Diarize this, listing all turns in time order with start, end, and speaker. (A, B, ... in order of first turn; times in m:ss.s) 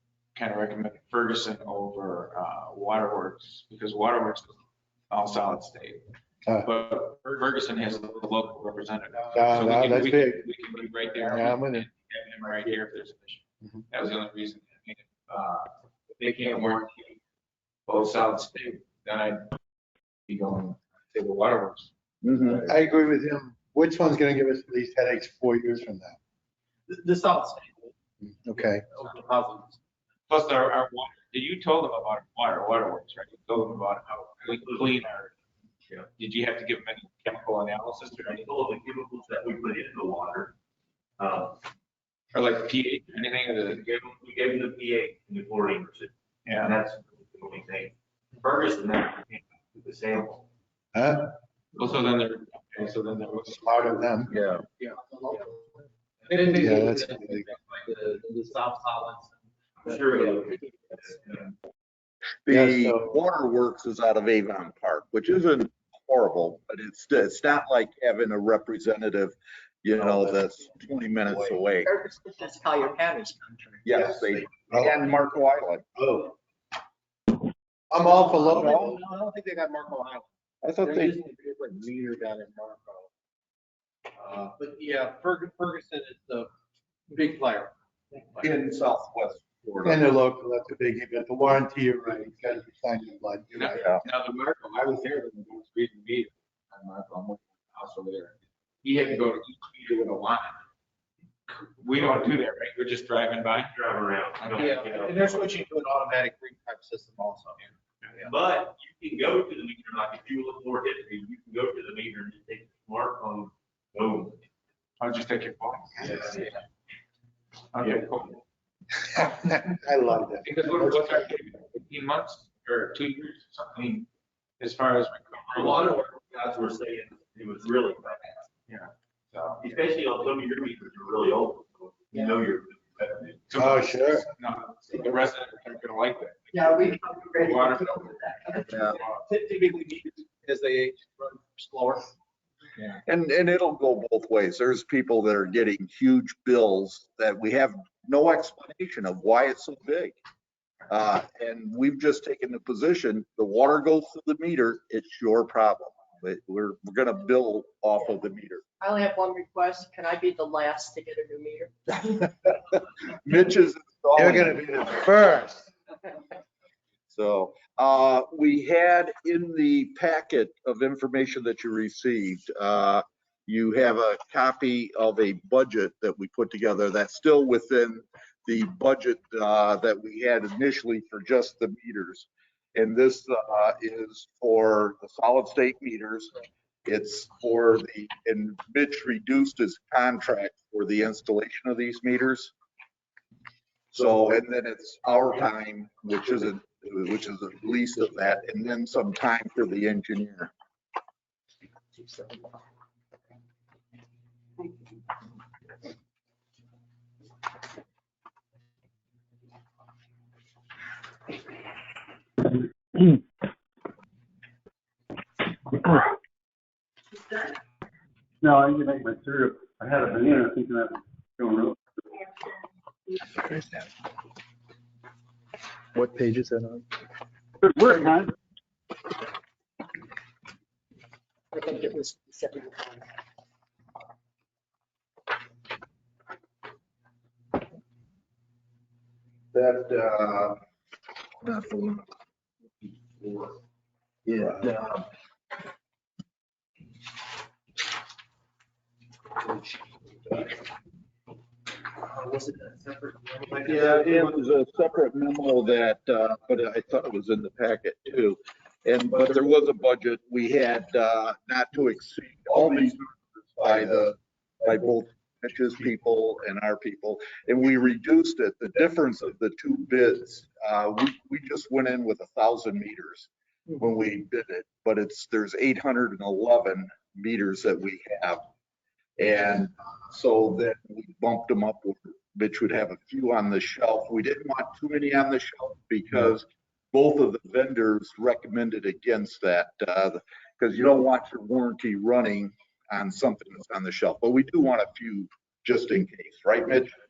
0:00.4-0:04.5 A
0:05.1-0:06.0 A
0:06.6-0:17.2 A
0:09.3-0:10.5 B
0:11.1-0:11.9 B
0:17.9-0:19.5 A
0:20.3-0:22.7 A
0:22.2-0:22.6 C
0:22.6-0:26.2 B
0:26.9-0:27.9 D
0:28.2-0:28.9 B
0:28.9-0:29.8 D
0:30.3-0:35.3 A
0:34.5-0:34.9 E
0:36.2-0:38.4 A
0:38.3-0:40.5 E
0:41.2-0:41.6 E
0:42.3-0:43.8 A
0:43.7-0:50.4 E
0:46.5-0:46.8 A
0:50.9-0:51.3 B
0:51.8-0:54.0 A
0:53.6-0:54.3 B
0:54.3-0:54.6 C
0:54.8-0:55.5 D
0:56.3-0:59.3 D
0:56.6-0:57.5 B
0:59.8-1:01.5 E
0:59.9-1:00.6 D
1:02.4-1:11.9 C
1:02.5-1:03.2 B
1:11.8-1:14.2 F
1:13.8-1:15.9 C
1:16.0-1:16.3 B
1:17.9-1:19.0 B
1:18.0-1:20.3 D
1:20.6-1:21.2 C
1:20.8-1:23.1 D
1:24.4-1:26.5 D
1:27.1-1:27.7 D
1:28.4-1:30.0 C
1:29.8-1:33.8 B
1:33.5-1:40.6 A
1:33.7-1:34.0 C
1:41.5-1:43.7 A
1:43.7-1:45.5 E
1:44.4-1:45.1 A
1:44.6-1:48.3 D
1:48.2-1:54.4 E
1:55.0-1:56.5 A
1:56.1-1:56.4 E
1:57.7-1:58.4 A
1:59.2-2:01.2 B
2:00.4-2:04.1 A
2:04.6-2:05.9 A
2:05.5-2:08.4 E
2:08.7-2:09.6 A
2:09.6-2:13.6 E
2:13.5-2:19.2 A
2:13.6-2:14.3 B
2:16.5-2:18.8 F
2:18.7-2:19.0 C
2:18.9-2:22.1 D
2:23.0-2:30.2 C
2:30.9-2:38.6 C
2:38.8-2:41.7 F
2:42.0-2:45.0 C
2:44.2-2:45.7 B
2:47.1-3:06.3 C
3:06.9-3:12.5 C
3:13.9-3:20.5 C
3:38.4-3:41.8 G
3:47.8-3:48.3 G
3:51.6-3:52.8 F
3:59.5-4:00.6 C
4:01.4-4:02.0 C
4:02.8-4:03.6 C
4:04.3-4:05.1 C
4:12.1-4:14.2 D
4:13.6-4:23.0 C
4:23.6-4:38.4 C
4:39.2-4:56.9 C